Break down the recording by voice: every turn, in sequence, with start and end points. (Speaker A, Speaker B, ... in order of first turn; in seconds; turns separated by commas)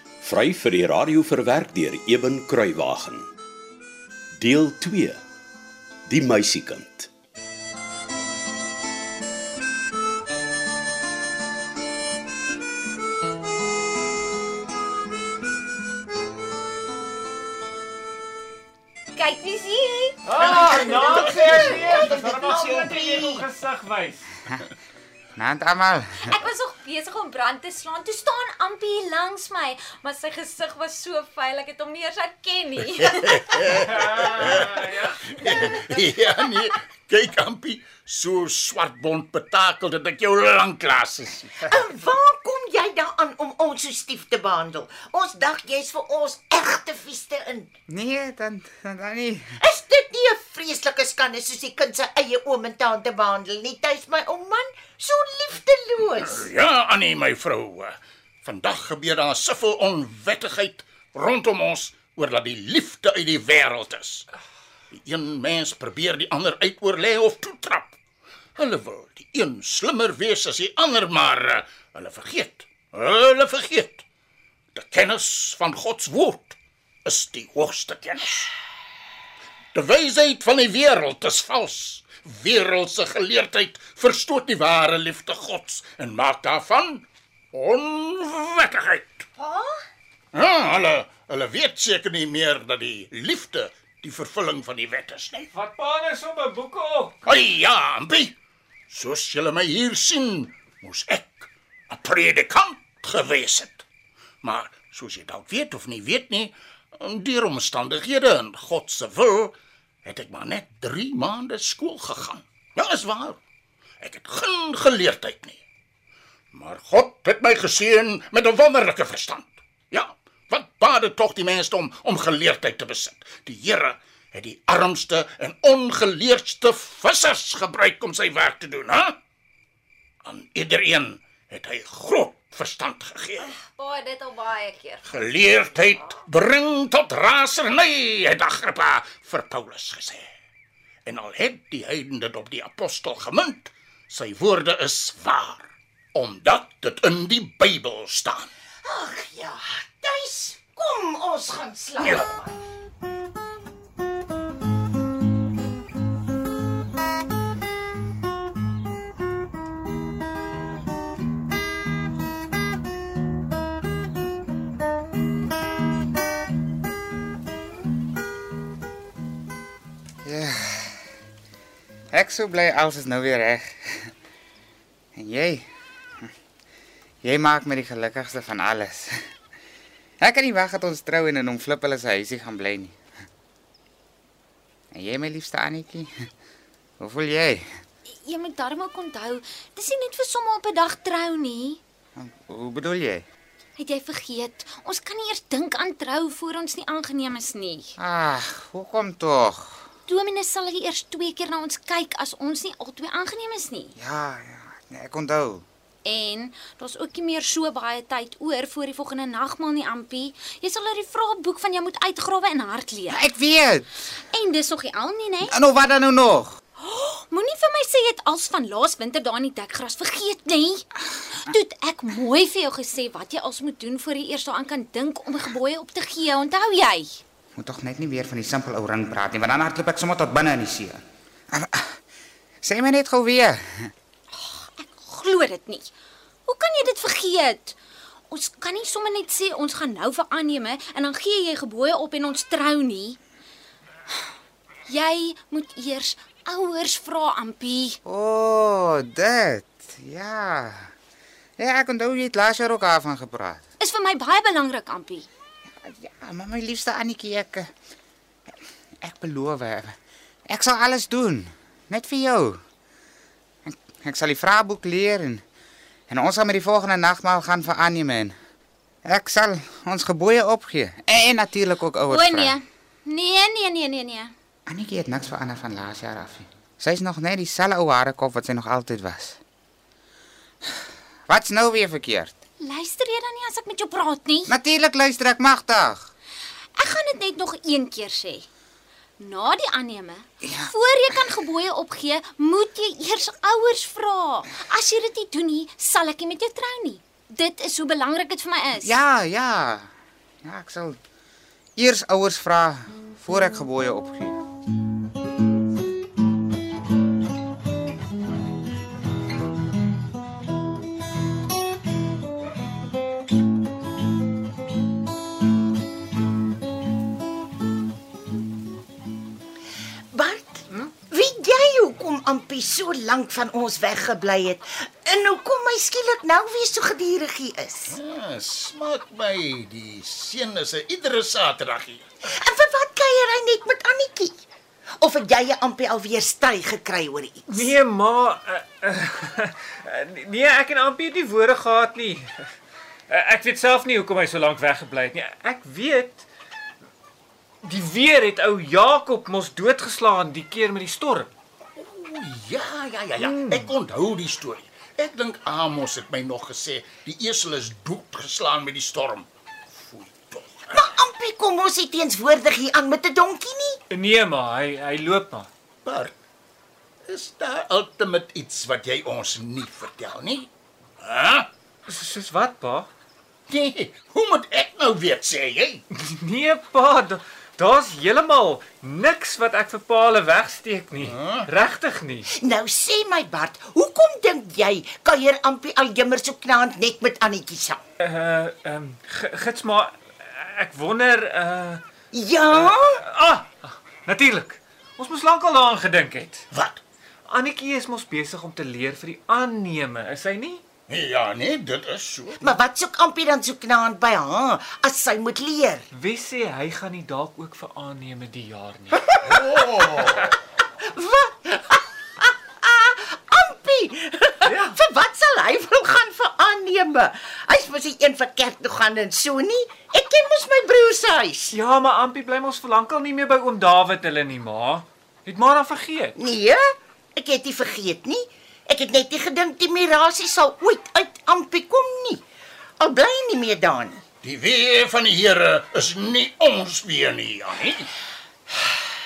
Speaker A: 0.2-3.3, Speaker A: 4.4-5.2, Speaker A: 6.1-7.1, Speaker B: 19.1-20.2, Speaker C: 20.2-24.3, Speaker D: 20.4-23.4, Speaker E: 25.4-26.3, Speaker B: 26.2-33.6, Speaker F: 33.1-41.7, Speaker C: 34.1-34.5, Speaker D: 41.6-47.7, Speaker E: 47.9-49.5, Speaker D: 49.6-56.5, Speaker F: 56.0-64.2, Speaker F: 64.9-68.0, Speaker F: 68.5-74.0, Speaker F: 74.7-78.5, Speaker F: 79.7-89.2, Speaker B: 89.4-89.7, Speaker F: 90.3-95.5, Speaker C: 95.5-97.1, Speaker F: 97.2-98.3, Speaker F: 98.9-103.8, Speaker F: 104.4-109.5, Speaker F: 110.0-113.4, Speaker F: 114.0-115.6, Speaker F: 116.5-129.2, Speaker F: 130.2-133.5, Speaker B: 133.4-135.2, Speaker F: 135.1-140.3, Speaker F: 141.1-148.5, Speaker D: 148.8-152.6, Speaker F: 152.0-152.3, Speaker E: 170.2-171.0, Speaker E: 172.1-174.1, Speaker E: 175.1-175.7, Speaker E: 177.2-179.1, Speaker E: 180.2-183.0, Speaker E: 184.9-186.1, Speaker E: 187.0-187.7, Speaker B: 188.1-191.8, Speaker E: 192.2-193.2, Speaker B: 193.8-197.9, Speaker E: 198.0-199.9, Speaker B: 200.1-203.9, Speaker E: 204.0-205.6, Speaker B: 206.0-213.2, Speaker E: 213.1-214.1, Speaker B: 214.3-215.5, Speaker E: 215.4-216.6, Speaker B: 216.8-220.8, Speaker B: 221.4-227.2, Speaker E: 227.6-231.0, Speaker E: 231.5-232.0, Speaker E: 232.6-233.9, Speaker B: 234.3-235.9, Speaker B: 236.4-237.8, Speaker B: 238.3-243.2, Speaker B: 244.9-248.0, Speaker E: 248.0-250.9, Speaker E: 251.6-253.6, Speaker B: 253.8-255.3, Speaker E: 255.8-257.7, Speaker E: 259.0-259.9, Speaker E: 260.5-262.6, Speaker E: 263.6-265.4, Speaker E: 266.1-268.3, Speaker E: 269.0-272.6, Speaker B: 272.1-274.3, Speaker E: 274.7-279.4, Speaker E: 281.3-282.4, Speaker B: 282.6-284.5, Speaker E: 284.5-286.1, Speaker B: 286.8-288.5, Speaker B: 289.2-298.9, Speaker E: 290.4-290.7, Speaker E: 298.8-299.9, Speaker E: 300.4-301.0, Speaker E: 301.8-304.4, Speaker D: 320.1-328.0, Speaker F: 327.9-332.1, Speaker D: 332.3-334.4, Speaker D: 335.0-337.7, Speaker C: 337.5-342.4, Speaker C: 343.1-346.2, Speaker C: 347.6-351.3, Speaker F: 351.8-360.8, Speaker C: 353.2-353.7, Speaker D: 360.7-363.8, Speaker C: 363.9-365.5, Speaker F: 365.8-366.1, Speaker F: 367.1-370.5, Speaker F: 371.0-371.5, Speaker C: 371.9-372.9, Speaker F: 373.5-375.8, Speaker C: 375.9-382.3, Speaker F: 381.0-381.5, Speaker D: 382.4-387.8, Speaker C: 388.0-391.8, Speaker D: 392.1-393.0, Speaker C: 392.5-396.4, Speaker F: 396.5-396.8, Speaker C: 397.3-400.6, Speaker F: 400.9-402.6, Speaker D: 402.4-405.9, Speaker C: 405.9-409.2, Speaker F: 409.3-410.2, Speaker D: 410.8-421.5, Speaker C: 414.4-414.8, Speaker C: 421.5-426.1, Speaker D: 426.2-432.2, Speaker D: 432.8-434.0, Speaker F: 434.2-437.9